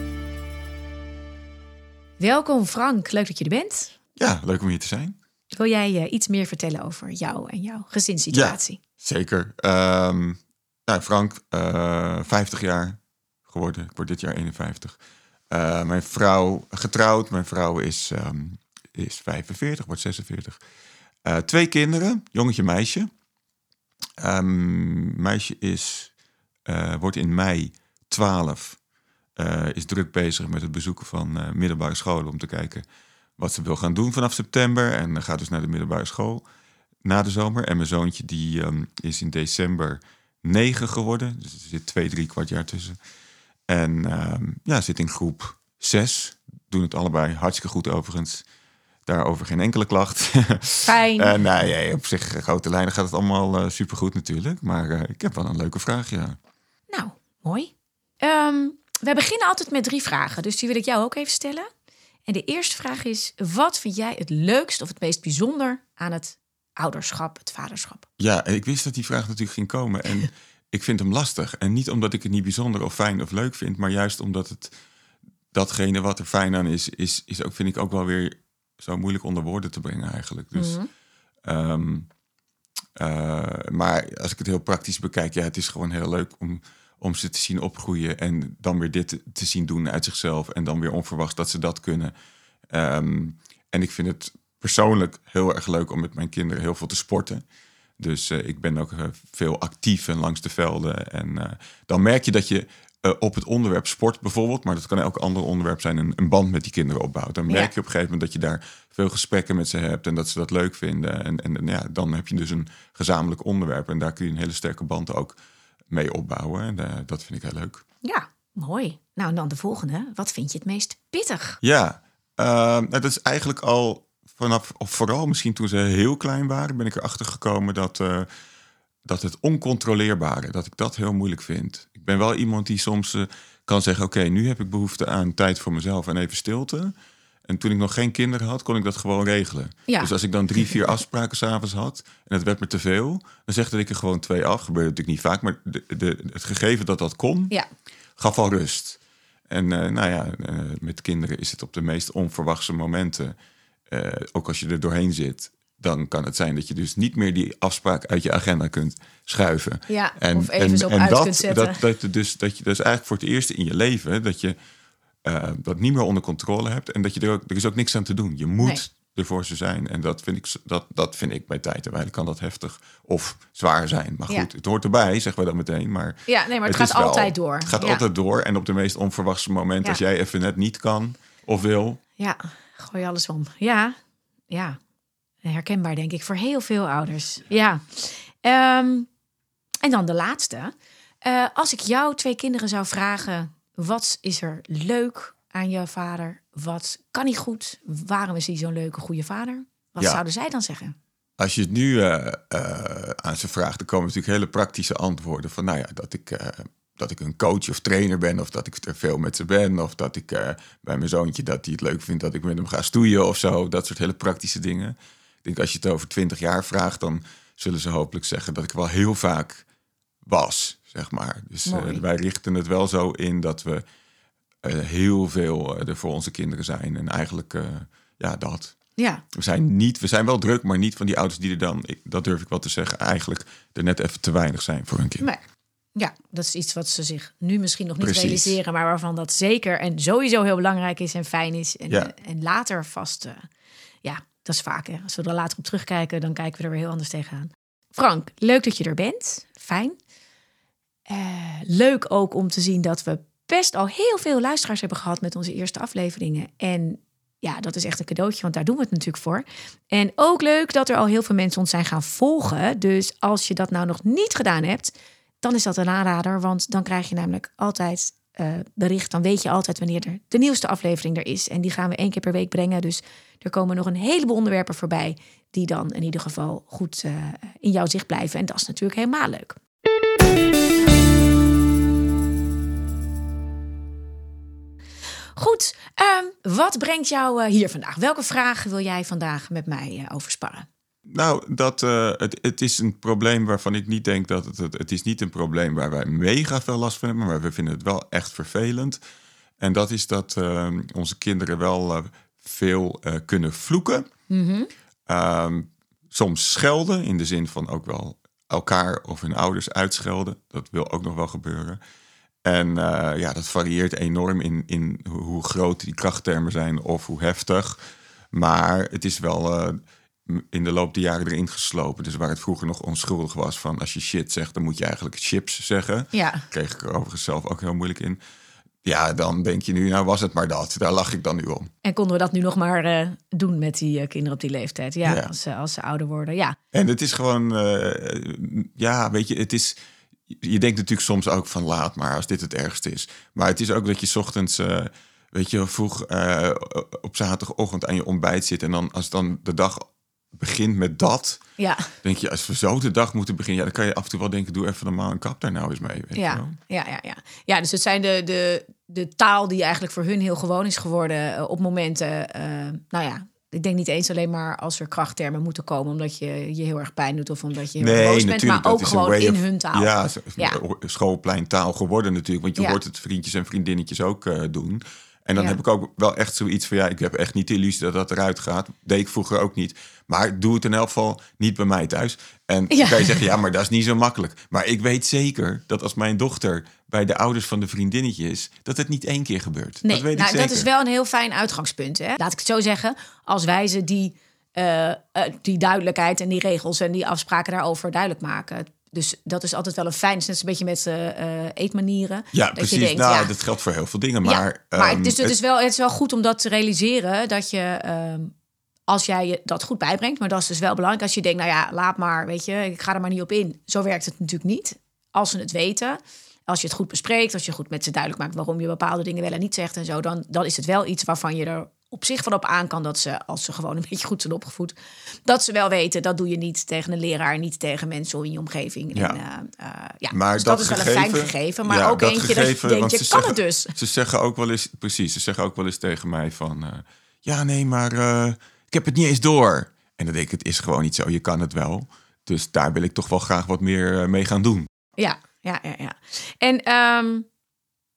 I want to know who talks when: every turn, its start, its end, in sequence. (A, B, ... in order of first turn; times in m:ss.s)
0:02.2-0:03.9 A
0:04.2-0:05.2 B
0:05.6-0:08.8 A
0:08.3-0:15.0 B
0:15.5-0:20.6 B
0:21.2-0:23.1 B
0:24.2-0:26.1 B
0:26.7-0:28.8 B
0:29.4-0:32.8 B
0:33.4-0:36.4 B
0:37.0-0:43.0 B
0:43.7-0:48.4 B
0:49.1-0:56.4 B
0:50.8-0:51.3 A
0:56.9-1:01.7 A
1:02.3-1:08.1 A
1:08.2-1:14.7 B
1:15.5-1:20.8 B
1:20.6-1:20.9 A
1:21.4-1:22.1 B
1:23.0-1:32.1 B
1:32.7-1:37.4 B
1:38.0-1:55.4 B
1:55.9-1:57.8 B
1:58.0-2:01.6 A
2:01.6-2:08.3 B
2:09.0-2:16.9 B
2:17.5-2:27.5 B
2:28.2-2:33.3 B
2:33.9-2:44.6 B
2:39.9-2:41.8 A
2:45.2-3:02.0 B
2:56.3-2:58.0 A
3:02.2-3:04.0 A
3:04.5-3:04.8 A
3:05.4-3:09.1 A
3:09.8-3:10.7 A
3:11.2-3:21.0 A
3:21.4-3:39.6 B
3:40.3-3:43.8 B
3:41.7-3:42.0 A
3:44.6-3:48.8 B
3:49.0-3:49.2 A
3:49.3-3:55.3 B
3:56.0-4:03.5 A
3:58.0-3:58.6 B
4:04.0-4:10.0 A
4:11.1-4:39.6 A
4:45.4-4:50.7 A
4:51.1-4:59.0 B
4:59.6-5:04.1 B
5:04.3-5:04.7 A
5:05.1-5:11.8 B
5:12.4-5:17.8 B
5:18.3-5:28.2 B
5:26.1-5:26.5 A
5:28.8-5:31.7 B
5:31.8-5:36.6 A
5:35.0-5:35.3 B
5:36.7-5:39.8 B
5:40.3-5:51.4 B
5:51.6-5:51.9 A
5:52.0-5:56.5 B
5:56.2-6:10.6 A
6:07.8-6:30.7 B
6:22.7-6:23.2 A
6:29.8-6:43.3 A
6:42.3-6:45.4 B
6:44.2-6:48.3 A
6:48.9-7:04.7 A
7:05.3-7:13.7 A
7:08.9-7:09.2 B
7:10.1-7:24.7 B
7:25.0-7:27.3 A